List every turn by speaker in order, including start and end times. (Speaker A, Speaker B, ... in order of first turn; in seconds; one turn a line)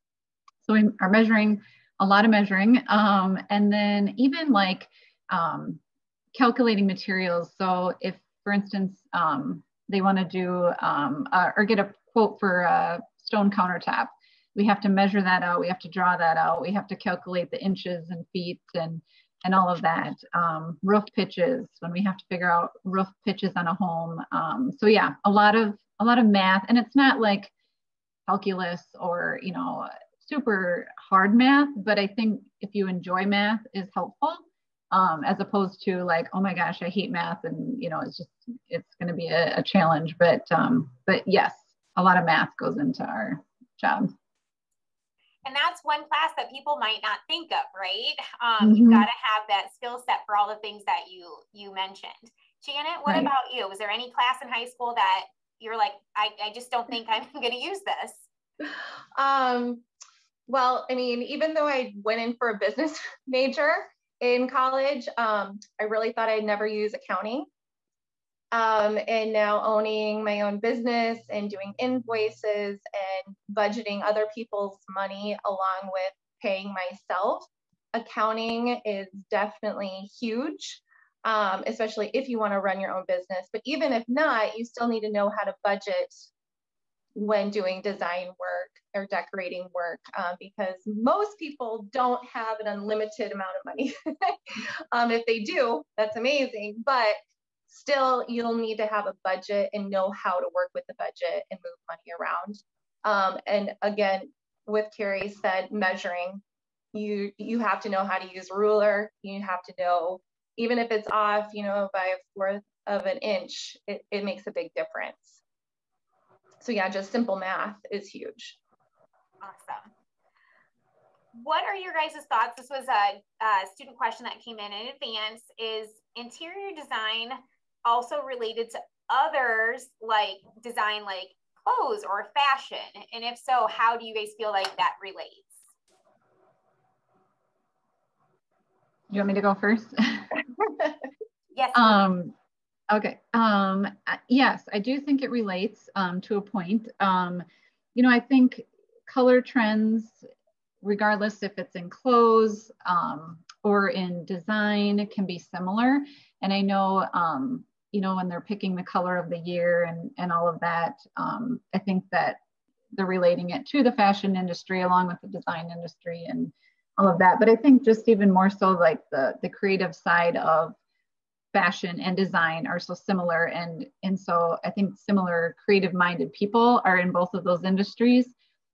Speaker A: 0.6-5.8
Speaker A: 6.3-27.5
Speaker A: 28.3-44.1
Speaker B: 45.5-58.3
Speaker A: 48.6-49.1
Speaker A: 53.1-53.3
Speaker C: 59.1-59.9
Speaker C: 60.5-67.5
Speaker C: 68.5-86.2
Speaker C: 87.2-97.2
Speaker C: 97.7-106.4
Speaker C: 106.9-115.4
Speaker C: 116.6-118.6
Speaker B: 119.4-119.9
Speaker B: 121.3-135.7
Speaker A: 139.1-140.4
Speaker C: 140.6-140.9
Speaker B: 141.5-142.0
Speaker A: 141.7-142.3
Speaker A: 142.9-150.3
Speaker A: 150.8-162.4
Speaker A: 162.9-170.8
Speaker A: 171.5-178.3